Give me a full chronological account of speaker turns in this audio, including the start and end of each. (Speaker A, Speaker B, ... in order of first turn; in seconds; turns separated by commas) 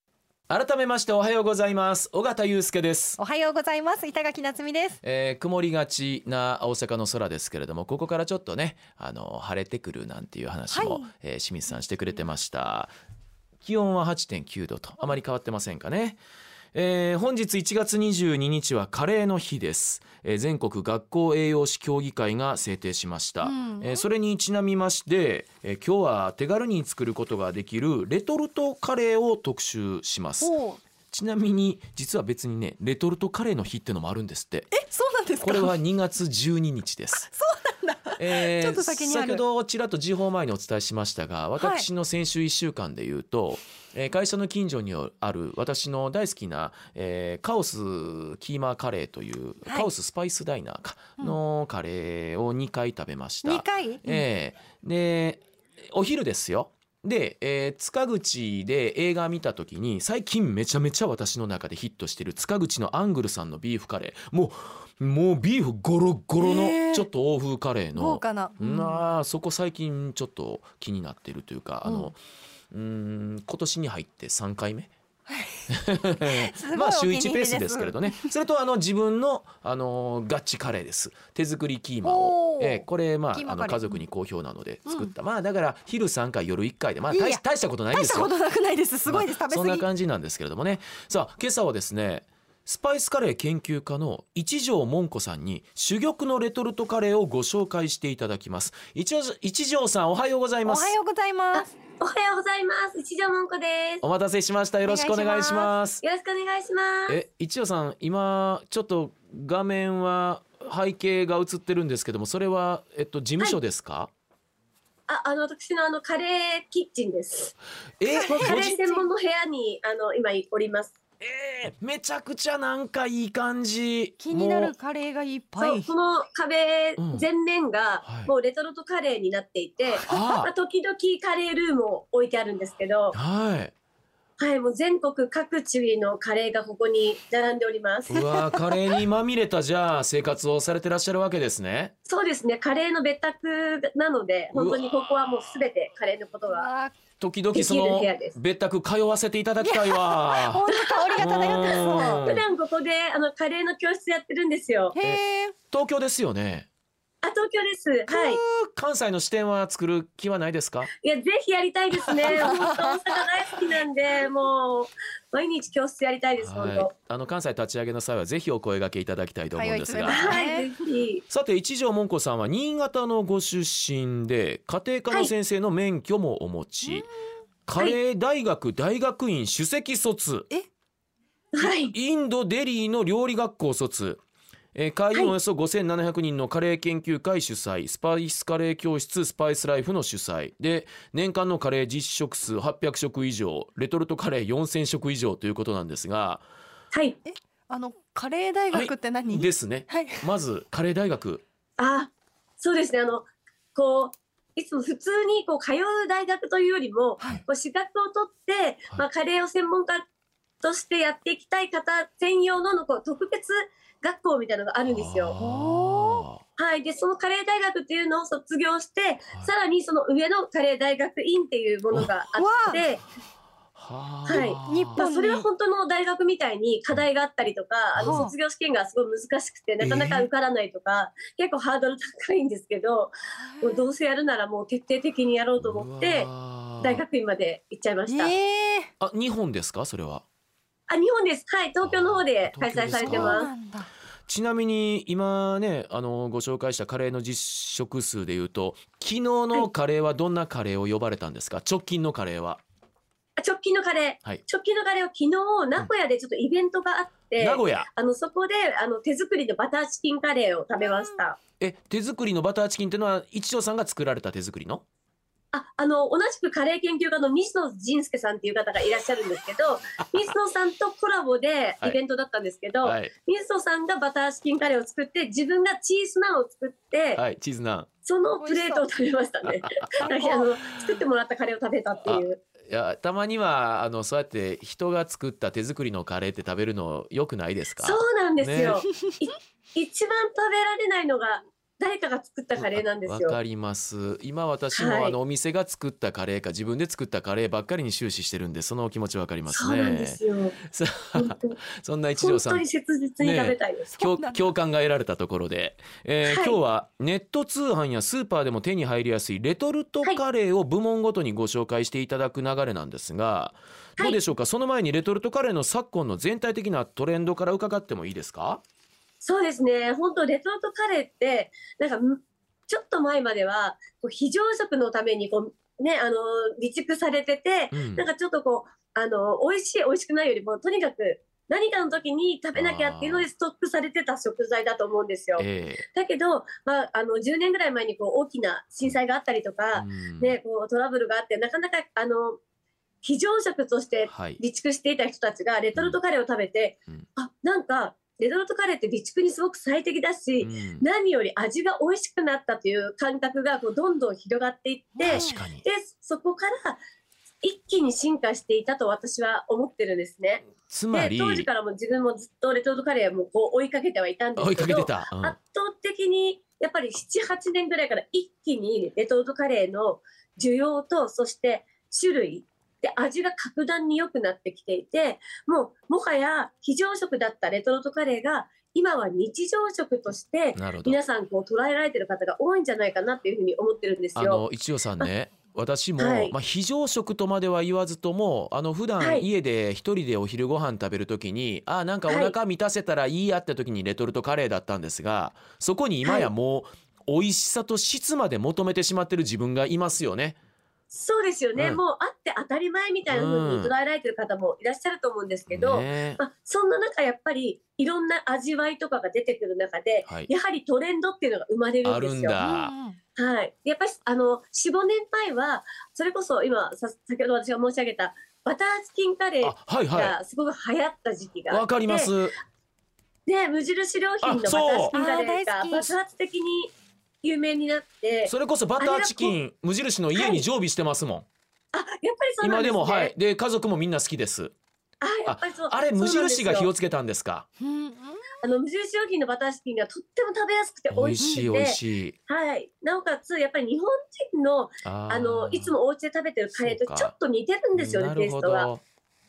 Speaker A: 0.5-3.2, Speaker B: 3.2-5.0, Speaker A: 5.0-12.9, Speaker B: 10.7-11.1, Speaker A: 13.6-16.2, Speaker A: 16.7-30.5, Speaker B: 23.4-24.1, Speaker B: 30.4-30.8, Speaker A: 31.1-34.7, Speaker B: 34.7-35.7, Speaker A: 35.4-37.3, Speaker B: 37.3-39.4, Speaker A: 38.2-72.2, Speaker B: 41.6-41.9, Speaker B: 53.4-54.2, Speaker B: 66.4-67.1, Speaker B: 68.0-69.0, Speaker B: 71.8-72.1, Speaker A: 72.7-74.9, Speaker B: 75.3-75.7, Speaker A: 75.7-88.3, Speaker B: 76.2-78.3, Speaker B: 82.0-84.0, Speaker B: 84.9-85.1, Speaker B: 87.1-89.9, Speaker A: 89.1-101.0, Speaker B: 100.7-101.7, Speaker C: 101.5-104.0, Speaker A: 104.0-106.0, Speaker B: 104.8-105.7, Speaker C: 106.0-107.2, Speaker A: 107.1-114.1, Speaker C: 115.1-117.5, Speaker A: 118.0-118.8, Speaker B: 118.1-119.0, Speaker C: 118.3-121.0, Speaker A: 121.2-124.7, Speaker B: 124.2-125.9, Speaker C: 125.6-133.2, Speaker A: 127.0-127.3, Speaker A: 128.0-128.3, Speaker A: 130.0-130.5, Speaker A: 133.1-133.7, Speaker C: 134.4-138.3, Speaker A: 138.1-141.9, Speaker C: 142.1-146.7, Speaker A: 144.5-145.6, Speaker B: 146.5-146.9, Speaker A: 147.2-150.7, Speaker C: 147.5-148.4, Speaker B: 149.6-152.3, Speaker C: 150.7-154.9, Speaker A: 151.2-152.4, Speaker B: 154.9-155.6, Speaker A: 155.0-156.7, Speaker C: 157.2-158.4, Speaker A: 158.1-160.9, Speaker C: 161.0-166.9, Speaker B: 162.3-163.0, Speaker A: 166.4-170.5, Speaker B: 169.5-170.7, Speaker C: 170.1-171.2, Speaker A: 171.3-177.1, Speaker A: 177.7-180.5, Speaker C: 181.5-181.9, Speaker A: 181.6-184.2, Speaker A: 184.8-196.4, Speaker C: 196.9-197.2, Speaker B: 197.3-200.3, Speaker A: 198.7-201.4, Speaker C: 201.8-210.1, Speaker C: 210.6-215.3, Speaker A: 214.9-216.4, Speaker B: 215.4-216.3, Speaker C: 216.6-223.0, Speaker B: 222.4-222.8, Speaker A: 223.8-225.0, Speaker B: 224.3-225.5, Speaker C: 224.3-236.3, Speaker A: 227.9-228.3, Speaker B: 228.0-228.3, Speaker A: 229.8-230.3, Speaker B: 233.4-233.9, Speaker A: 235.6-237.0, Speaker C: 236.8-238.3, Speaker B: 238.1-238.9, Speaker A: 239.0-240.2, Speaker C: 240.9-243.5, Speaker A: 241.8-243.5, Speaker B: 243.0-243.9, Speaker A: 244.3-252.6, Speaker C: 253.4-261.4, Speaker A: 257.4-257.9, Speaker B: 260.8-261.2, Speaker A: 261.6-264.8, Speaker C: 265.5-277.2, Speaker A: 272.8-273.1, Speaker A: 277.2-277.9, Speaker C: 278.0-282.4, Speaker B: 278.4-278.9, Speaker A: 279.4-280.1, Speaker B: 280.0-280.9, Speaker A: 282.1-288.9, Speaker C: 287.8-293.4, Speaker A: 292.6-302.6, Speaker C: 294.7-295.2, Speaker C: 299.5-300.6, Speaker C: 301.1-301.6, Speaker C: 302.2-303.9, Speaker A: 303.2-318.6, Speaker B: 303.9-304.5, Speaker C: 306.2-306.6, Speaker C: 319.2-342.4, Speaker A: 327.7-328.1, Speaker A: 332.5-333.3, Speaker A: 335.4-335.9, Speaker A: 339.7-340.4, Speaker C: 343.0-356.8, Speaker A: 344.1-344.4, Speaker A: 350.4-350.9, Speaker B: 355.0-355.4, Speaker A: 355.1-355.6, Speaker C: 357.4-384.4, Speaker A: 360.7-361.5, Speaker A: 364.4-365.4, Speaker A: 380.6-381.0, Speaker A: 384.2-400.4, Speaker C: 386.0-386.4, Speaker C: 389.0-389.3, Speaker C: 392.1-392.4, Speaker C: 396.0-396.3, Speaker C: 400.9-412.4, Speaker A: 401.6-401.8, Speaker A: 403.1-403.7, Speaker A: 405.5-406.2, Speaker A: 411.8-412.7, Speaker B: 412.4-413.0, Speaker C: 413.2-422.1, Speaker A: 419.4-420.2, Speaker A: 421.5-422.4, Speaker C: 423.3-429.4, Speaker A: 424.2-424.9, Speaker B: 424.9-425.9, Speaker A: 428.2-431.3, Speaker C: 430.1-430.4, Speaker C: 431.7-433.1, Speaker A: 432.4-434.5, Speaker C: 435.0-436.7, Speaker A: 435.3-437.5, Speaker B: 437.6-438.4, Speaker C: 438.4-448.7, Speaker A: 440.9-442.2, Speaker A: 444.8-445.7, Speaker A: 446.5-447.1, Speaker A: 447.8-448.8